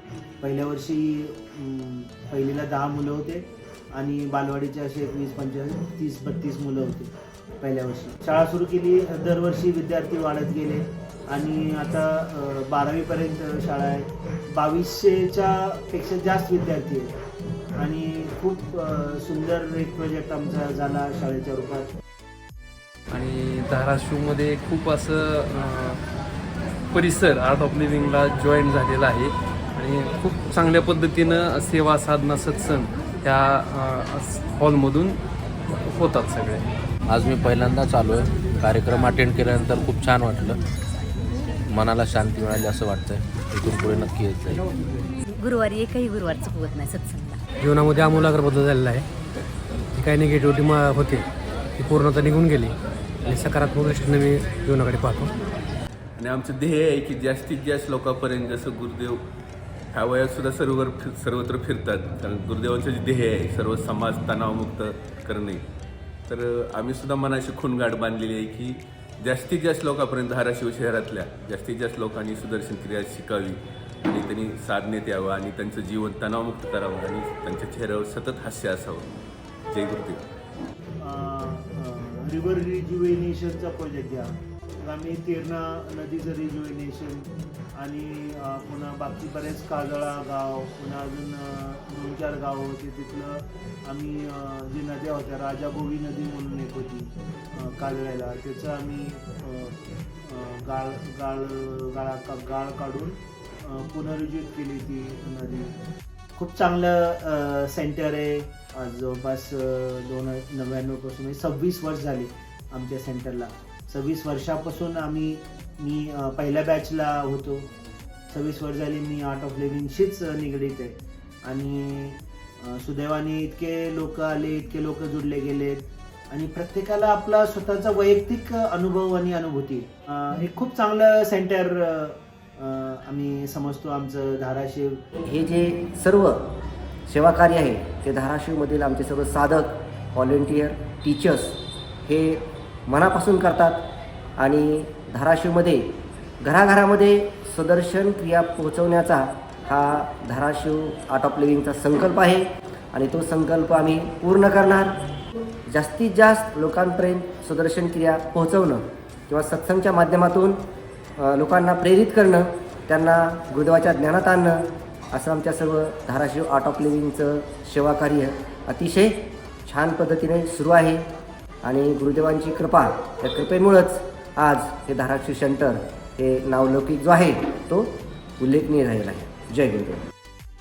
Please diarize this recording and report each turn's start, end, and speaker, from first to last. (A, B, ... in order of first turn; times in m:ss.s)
0:00.4-0:17.1 A
0:17.8-0:21.9 A
0:23.1-0:26.0 B
0:26.9-0:35.2 B
0:35.7-0:36.6 B
0:37.1-0:40.6 C
0:41.7-0:44.6 C
0:45.4-0:47.4 D
0:47.6-0:49.0 E
0:49.9-0:51.2 E
0:51.8-0:55.3 E
0:56.2-0:59.2 F
0:59.9-1:05.6 F
1:06.3-1:19.1 F
1:19.7-1:20.2 F
1:21.0-1:45.7 A
1:46.4-1:57.7 A
1:58.3-2:15.0 A
2:15.2-2:16.4 G
2:17.1-2:23.8 G
2:24.4-2:35.0 G
2:35.7-2:40.6 G
2:41.2-2:51.0 G
2:51.6-3:00.0 G